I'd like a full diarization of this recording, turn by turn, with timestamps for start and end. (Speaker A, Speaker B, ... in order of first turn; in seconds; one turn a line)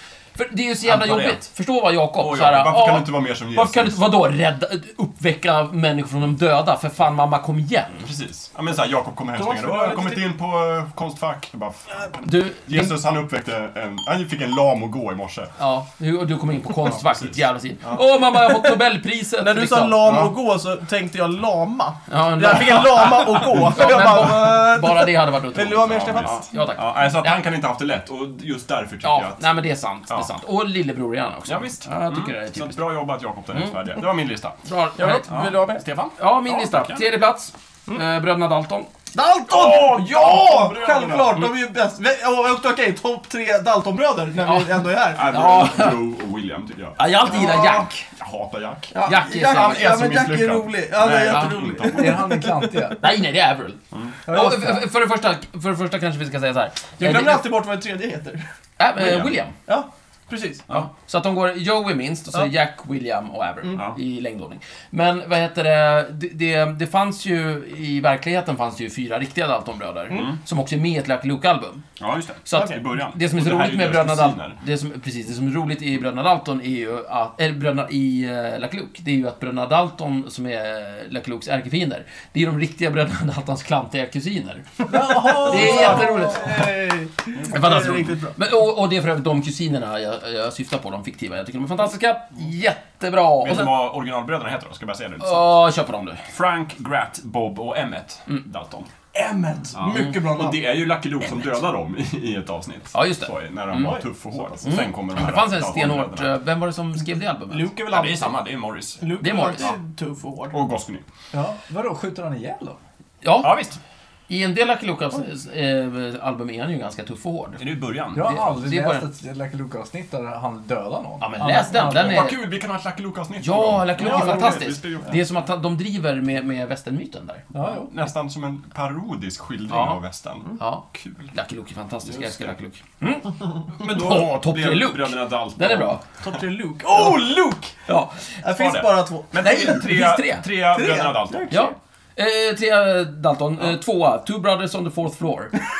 Speaker A: 0.3-8.0
Speaker B: 0.8-1.4
Speaker B: 2.2-4.0
Speaker B: 8.0-15.5
Speaker C: 9.3-10.2
Speaker A: 12.2-12.9
Speaker A: 15.6-20.2
Speaker B: 16.8-18.0
Speaker C: 19.4-26.5
Speaker B: 20.0-20.3
Speaker A: 22.1-27.4
Speaker B: 25.7-29.5
Speaker A: 29.0-32.8
Speaker B: 31.5-37.0
Speaker A: 34.6-35.5
Speaker C: 35.0-35.8
Speaker A: 36.2-38.9
Speaker C: 39.1-45.4
Speaker B: 39.5-41.5
Speaker A: 44.4-46.1
Speaker B: 45.1-52.4
Speaker A: 47.0-48.0
Speaker C: 47.2-47.9
Speaker C: 48.9-53.0
Speaker A: 49.0-50.1
Speaker A: 51.3-51.6
Speaker D: 51.9-53.0
Speaker A: 53.0-57.5
Speaker D: 54.3-54.6
Speaker C: 57.0-58.4
Speaker A: 58.8-59.5
Speaker B: 59.0-59.4
Speaker C: 59.6-60.6
Speaker A: 60.7-71.8
Speaker B: 70.1-70.4
Speaker B: 72.0-74.6
Speaker A: 72.4-86.7
Speaker C: 72.5-72.8
Speaker D: 84.9-86.3
Speaker C: 84.9-88.4
Speaker B: 87.3-88.0
Speaker A: 87.5-93.7
Speaker B: 93.4-95.6
Speaker A: 95.2-96.2
Speaker B: 96.3-98.9
Speaker C: 99.1-100.7
Speaker B: 99.7-106.3
Speaker A: 102.9-104.0
Speaker C: 103.7-104.8
Speaker A: 104.6-107.9
Speaker C: 107.5-108.4
Speaker B: 107.9-109.0
Speaker C: 109.0-110.6
Speaker A: 109.2-109.7
Speaker B: 110.5-111.0
Speaker D: 111.3-112.8
Speaker A: 113.2-113.7
Speaker B: 113.4-113.8
Speaker A: 114.3-117.6
Speaker B: 117.6-118.3
Speaker D: 118.1-122.2
Speaker A: 118.2-119.1
Speaker A: 121.2-122.4
Speaker B: 121.7-125.2
Speaker A: 123.4-127.4
Speaker C: 124.0-124.6
Speaker D: 127.5-127.9
Speaker B: 127.6-131.3
Speaker A: 129.7-130.0
Speaker A: 130.6-136.0
Speaker B: 132.0-132.5
Speaker B: 133.8-136.0
Speaker C: 136.2-137.8
Speaker A: 137.9-138.4
Speaker C: 138.4-139.8
Speaker B: 138.5-141.7
Speaker A: 139.4-140.5
Speaker C: 140.7-141.7
Speaker A: 141.5-145.5